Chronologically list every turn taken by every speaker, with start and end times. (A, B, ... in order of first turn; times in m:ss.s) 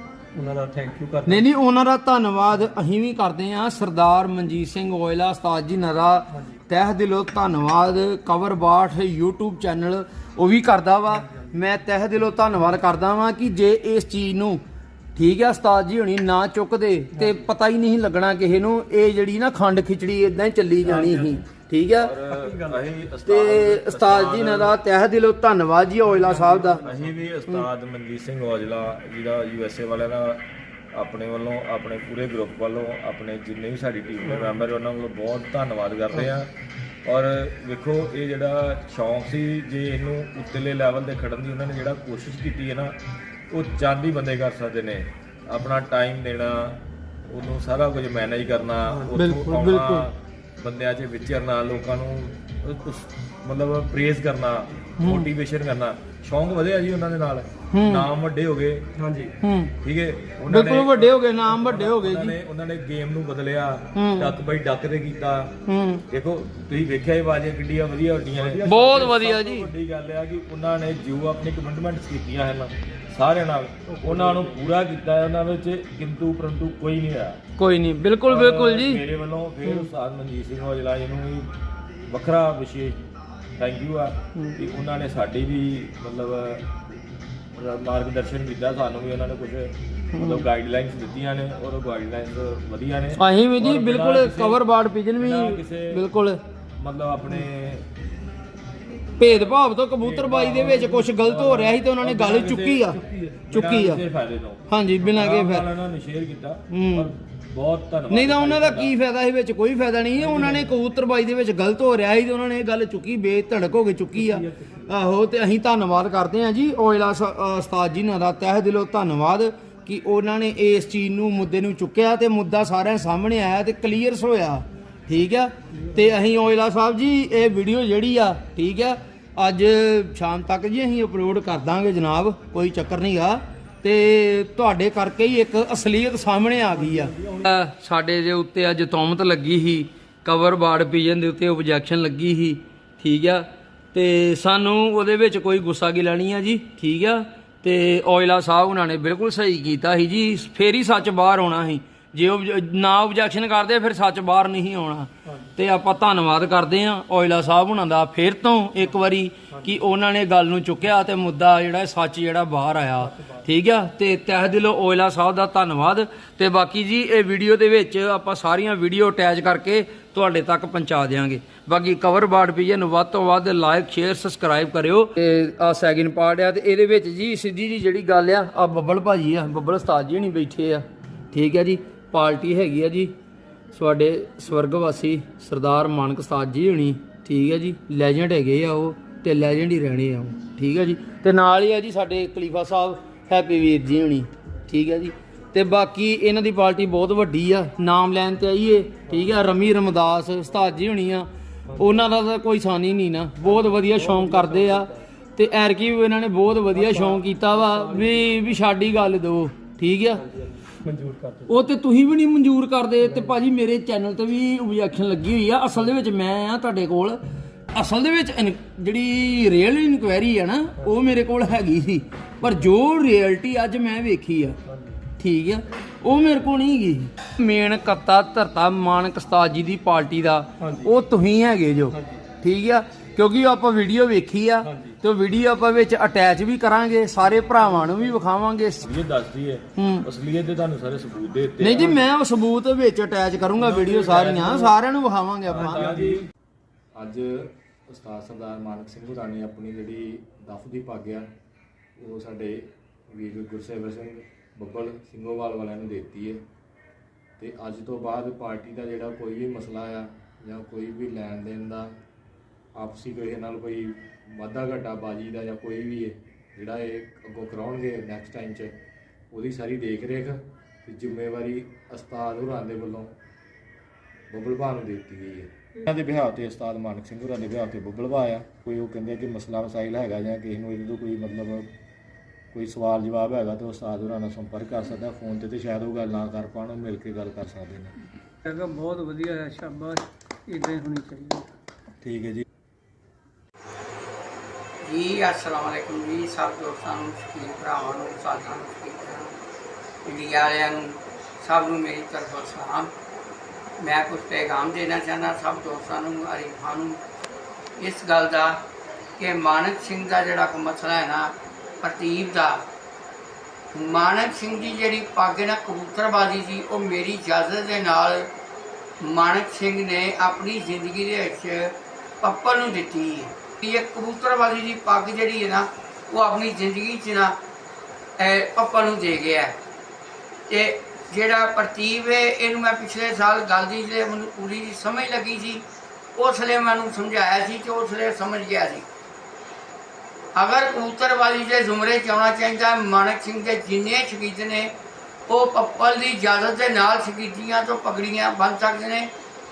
0:00.3-0:01.4 A
0:01.2-0:14.6 B
0:06.3-0:06.6 A
0:11.1-0:11.5 A
0:15.2-0:22.1 B
0:17.1-0:17.4 A
0:20.8-0:21.4 A
0:22.0-0:24.8 C
0:22.3-0:22.8 A
0:23.2-0:26.8 B
0:26.0-0:27.3 A
0:26.8-0:30.4 C
0:30.9-0:36.5 C
0:34.2-0:34.5 A
0:37.0-0:42.9 C
0:43.5-0:58.9 C
0:48.9-0:49.2 A
0:49.1-0:50.1 B
0:55.0-0:55.3 B
0:57.7-0:58.1 B
0:59.0-0:59.3 A
0:59.4-0:59.7 B
0:59.8-1:05.5 C
1:00.5-1:02.4 B
1:03.9-1:04.4 B
1:05.7-1:06.0 B
1:06.1-1:17.4 C
1:08.3-1:09.1 A
1:08.6-1:09.7 B
1:13.8-1:14.7 A
1:17.6-1:19.0 B
1:18.3-1:21.5 C
1:22.1-1:23.0 C
1:23.6-1:26.7 C
1:27.5-1:34.6 C
1:30.1-1:30.4 B
1:33.2-1:36.4 B
1:35.2-1:36.0 C
1:36.8-1:37.8 C
1:39.2-1:44.0 B
1:39.2-1:48.9 C
1:42.9-1:43.4 A
1:44.7-1:45.7 B
1:46.7-1:47.1 B
1:48.1-3:03.1 B
1:50.3-1:50.6 C
1:54.1-1:54.9 A
2:05.7-2:06.2 A
2:16.6-2:17.5 A
2:35.2-2:35.5 A
2:39.5-2:39.8 A
2:43.0-2:43.5 A
3:03.7-3:30.2 B
3:19.1-3:19.4 A
3:21.7-3:22.1 A
3:23.4-3:25.0 A
3:26.7-3:28.4 A
3:30.1-3:31.6 A
3:31.5-3:37.2 B
3:33.0-3:33.3 A
3:37.7-3:44.6 B
3:42.4-3:42.7 A
3:44.6-3:45.0 A
3:45.2-3:58.9 B
3:50.6-3:50.9 A
3:51.9-3:52.2 A
3:54.6-3:55.0 A
3:57.3-3:58.2 A
3:58.8-4:02.0 C
3:59.8-4:00.0 B
4:01.6-4:06.1 B
4:03.6-4:04.7 C
4:05.4-4:06.3 C
4:05.5-4:06.3 A
4:06.9-4:11.3 C
4:12.0-4:16.4 C
4:17.4-4:21.9 C
4:22.7-4:28.7 C
4:29.3-4:33.1 C
4:34.3-4:41.7 C
4:42.5-4:47.9 C
4:48.4-4:51.5 D
4:52.0-4:52.4 C
4:54.8-4:59.4 E
5:00.0-5:02.9 E
5:03.8-5:07.0 E
5:07.8-5:08.6 E
5:09.2-5:12.6 E
5:13.7-5:18.3 E
5:19.0-5:27.4 E
5:28.2-5:29.5 E
5:30.5-5:35.6 E
5:36.2-5:38.8 E
5:40.4-5:44.7 E
5:45.3-5:49.1 E